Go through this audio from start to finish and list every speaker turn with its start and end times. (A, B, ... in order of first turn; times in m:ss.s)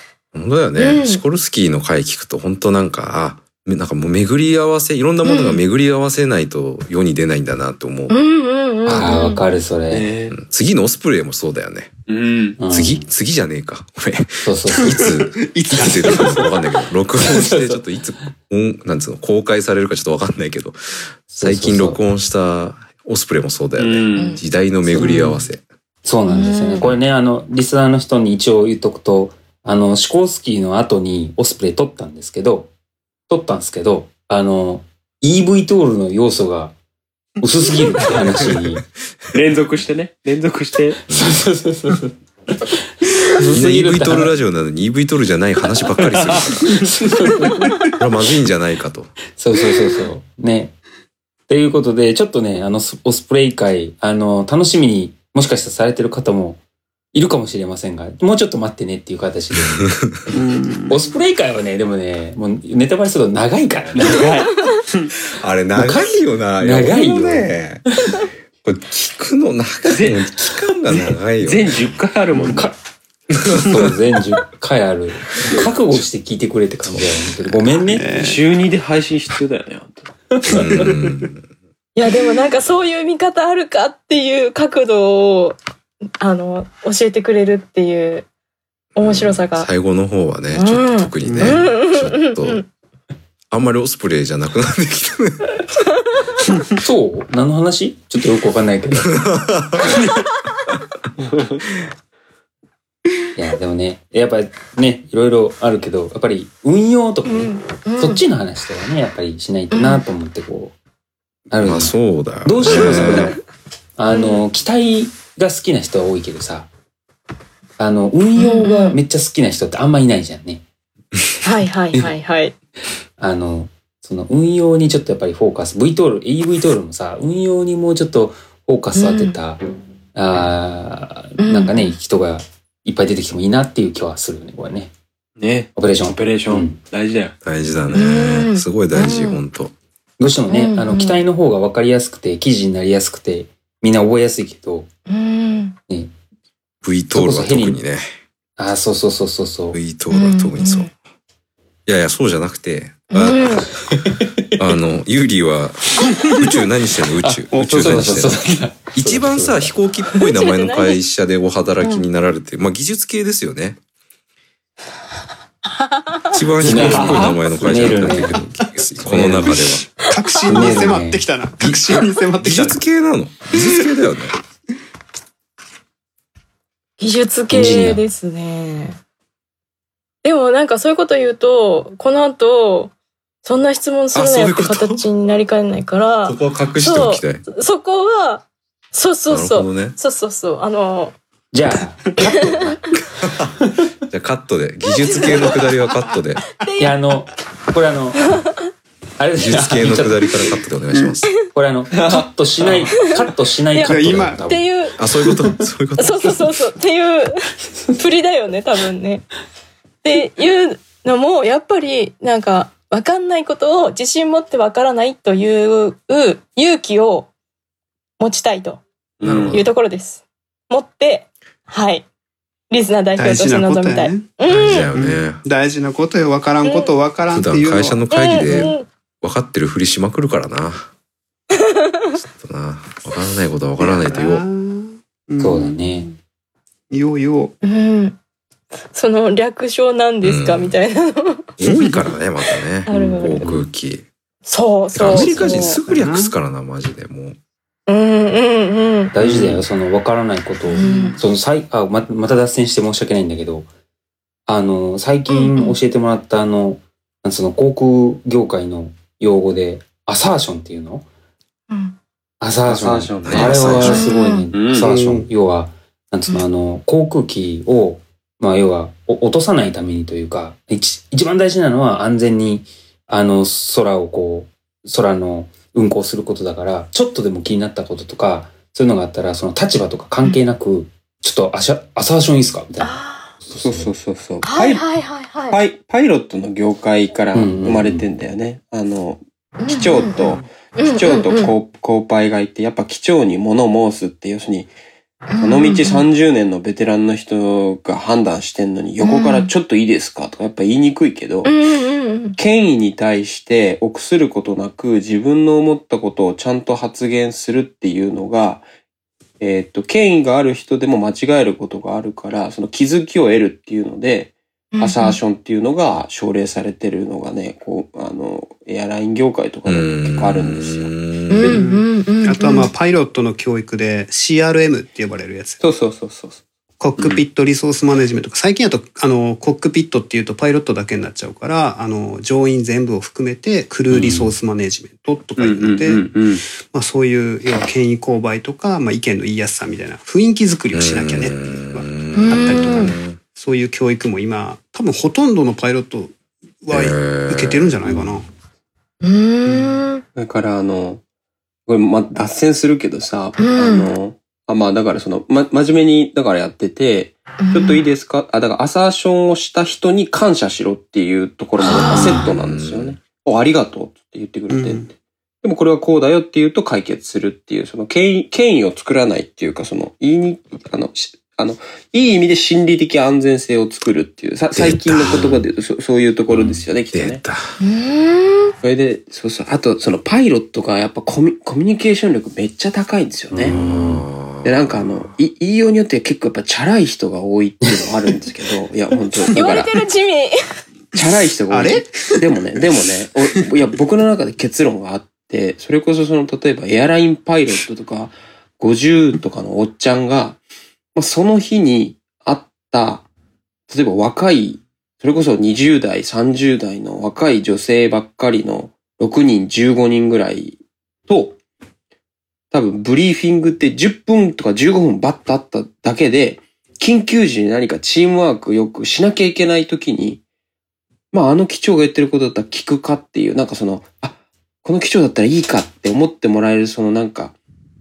0:00.3-0:08.2 A
0:00.8-0:01.2 B
0:05.2-0:05.6 B
0:08.1-0:09.4 B
0:08.8-0:10.1 C
0:09.9-0:10.3 D
0:10.3-0:11.9 A
0:12.1-0:12.6 D
0:12.6-0:13.1 C
0:12.7-0:25.6 A
0:14.4-0:15.1 C
0:14.8-0:16.6 E
0:17.2-0:17.8 C
0:21.3-0:22.0 C
0:23.8-0:24.4 D
0:24.2-0:24.4 B
0:24.9-0:25.4 C
0:26.0-0:32.7 C
0:26.3-0:26.9 B
0:33.3-0:36.7 C
0:37.4-0:38.8 C
0:39.3-0:41.0 D
0:41.1-0:41.4 A
0:41.1-0:42.1 C
0:43.0-0:44.3 C
0:43.5-0:46.9 A
0:46.1-0:46.5 D
0:47.0-0:47.6 C
0:48.0-0:49.1 A
0:49.4-0:50.7 C
0:51.5-0:56.6 C
0:57.1-0:59.9 C
0:59.7-1:00.2 A
1:00.3-1:01.0 E
1:00.9-1:04.3 C
1:03.9-1:05.1 D
1:05.3-1:07.8 A
1:05.8-1:06.1 C
1:06.6-1:07.6 C
1:08.6-1:11.8 A
1:09.8-1:12.7 D
1:12.4-1:12.8 C
1:13.3-1:13.9 A
1:13.6-1:18.1 C
1:16.8-1:17.6 A
1:17.9-1:18.4 E
1:18.2-1:20.1 D
1:20.4-1:20.9 C
1:20.4-1:21.4 A
1:22.0-1:25.6 B
1:26.2-1:28.2 B
1:29.0-1:29.7 B
1:29.0-1:32.6 A
1:30.5-1:32.6 B
1:31.2-1:31.6 E
1:33.5-1:35.6 A
1:36.8-1:39.1 C
1:39.1-1:40.0 A
1:41.4-1:41.6 D
1:43.4-1:50.7 C
1:47.2-1:48.2 B
1:49.7-1:50.0 B
1:51.5-1:53.4 C
1:51.6-1:53.4 A
1:54.0-1:56.7 C
1:54.1-1:54.4 B
1:57.8-2:00.6 C
1:58.4-1:59.0 B
2:01.4-2:02.5 B
2:03.2-2:09.6 C
2:08.9-2:09.4 B
2:10.1-2:14.9 C
2:11.4-2:11.9 B
2:15.4-2:17.4 D
2:15.8-2:16.8 C
2:17.4-2:19.7 A
2:17.9-2:19.4 B
2:20.2-2:24.9 C
2:20.5-2:21.2 B
2:25.1-2:25.8 B
2:26.8-2:28.1 A
2:27.1-2:27.8 C
2:28.6-2:29.8 C
2:29.7-2:30.9 A
2:30.1-2:30.9 B
2:31.8-2:33.7 A
2:33.1-2:33.7 B
2:34.0-2:34.7 C
2:34.6-2:43.8 A
2:37.2-2:39.8 C
2:37.5-2:38.2 E
2:40.2-2:41.0 B
2:46.3-2:49.8 A
2:46.6-2:48.4 C
2:46.7-2:47.2 E
2:46.8-2:47.2 D
2:49.0-2:49.6 C
2:49.2-2:52.8 E
2:50.4-2:51.2 C
2:51.6-2:54.4 A
2:53.5-2:54.0 E
2:57.0-2:59.0 B
2:57.5-2:58.0 C
3:00.2-3:02.9 B
3:03.4-3:11.2 B
3:04.1-3:05.0 A
3:06.2-3:07.4 A
3:09.3-3:10.0 A
3:11.5-3:13.0 C
3:13.2-3:13.6 A
3:14.1-3:16.5 A
3:15.0-3:15.6 B
3:16.6-3:17.1 B
3:16.8-3:18.4 C
3:19.2-3:20.3 C
3:19.4-3:21.4 A
3:21.5-3:24.7 C
3:21.9-3:23.1 D
3:23.7-3:25.0 B
3:23.8-3:24.4 E
3:25.0-3:26.4 A
3:26.0-3:27.4 B
3:27.9-3:29.3 B
3:30.0-3:37.3 B
3:38.2-3:38.8 B
3:39.2-3:39.6 D
3:39.2-3:39.7 A
3:39.5-3:42.0 B
3:42.7-3:44.9 B
3:43.2-3:44.4 E
3:44.4-3:45.4 A
3:44.9-3:48.0 E
3:46.6-3:46.9 B
3:47.3-3:50.9 A
3:48.1-3:48.8 B
3:51.6-3:52.1 B
3:52.2-3:54.4 A
3:53.8-3:56.2 E
3:55.4-3:56.1 C
3:56.9-3:57.5 E
3:57.6-3:58.2 B
3:58.9-4:01.4 B
4:00.2-4:00.8 A
4:01.6-4:04.0 A
4:01.7-4:02.0 E
4:02.8-4:03.4 B
4:02.9-4:03.6 C
4:04.4-4:05.8 B
4:04.9-4:07.4 A
4:05.9-4:06.3 E
4:07.9-4:09.1 B
4:09.1-4:13.7 C
4:09.2-4:09.6 D
4:10.7-4:11.2 B
4:10.8-4:11.1 E
4:14.5-4:21.0 C
4:15.3-4:15.8 B
4:21.7-4:22.0 B
4:22.4-4:43.9 C
4:22.6-4:24.9 D
4:23.2-4:24.1 A
4:23.8-4:24.5 B
4:24.7-4:25.3 E
4:42.8-4:43.3 B
4:43.6-4:44.8 D
4:44.4-4:45.6 B
4:45.5-4:54.7 D
4:47.3-4:48.1 C
4:49.6-4:50.2 B
4:50.8-4:51.5 B
4:55.3-4:56.0 B
4:55.4-5:01.5 D
4:59.0-4:59.5 B
5:01.4-5:02.4 B
5:02.4-5:08.6 D
5:09.4-5:20.9 D
5:14.7-5:15.2 B
5:19.6-5:21.6 A
5:21.3-5:22.7 B
5:21.4-5:25.6 E
5:25.6-5:26.4 D
5:26.8-5:36.0 E
5:27.0-5:27.2 D
5:33.9-5:34.3 D
5:35.4-5:36.4 D
5:36.6-5:48.3 E
5:40.7-5:43.2 A
5:42.1-5:42.9 B
5:46.7-5:48.1 A
5:49.0-5:50.0 B
5:49.4-5:49.7 E
5:50.2-5:51.0 D
5:51.7-6:17.2 D
5:53.4-5:53.9 B
5:57.4-5:57.8 B
6:01.6-6:02.2 B
6:02.0-6:02.2 E
6:02.2-6:03.0 A
6:04.5-6:04.9 E
6:14.6-6:15.4 A
6:16.9-6:17.5 A
6:17.6-6:18.5 B
6:18.6-6:23.6 D
6:23.3-6:24.0 C
6:23.5-6:25.1 A
6:24.4-6:29.7 D
6:29.3-6:30.4 B
6:30.9-6:40.4 D
6:31.5-6:32.2 E
6:40.9-6:43.1 D
6:43.7-6:51.4 D
6:52.5-7:00.2 D
7:01.1-7:07.4 D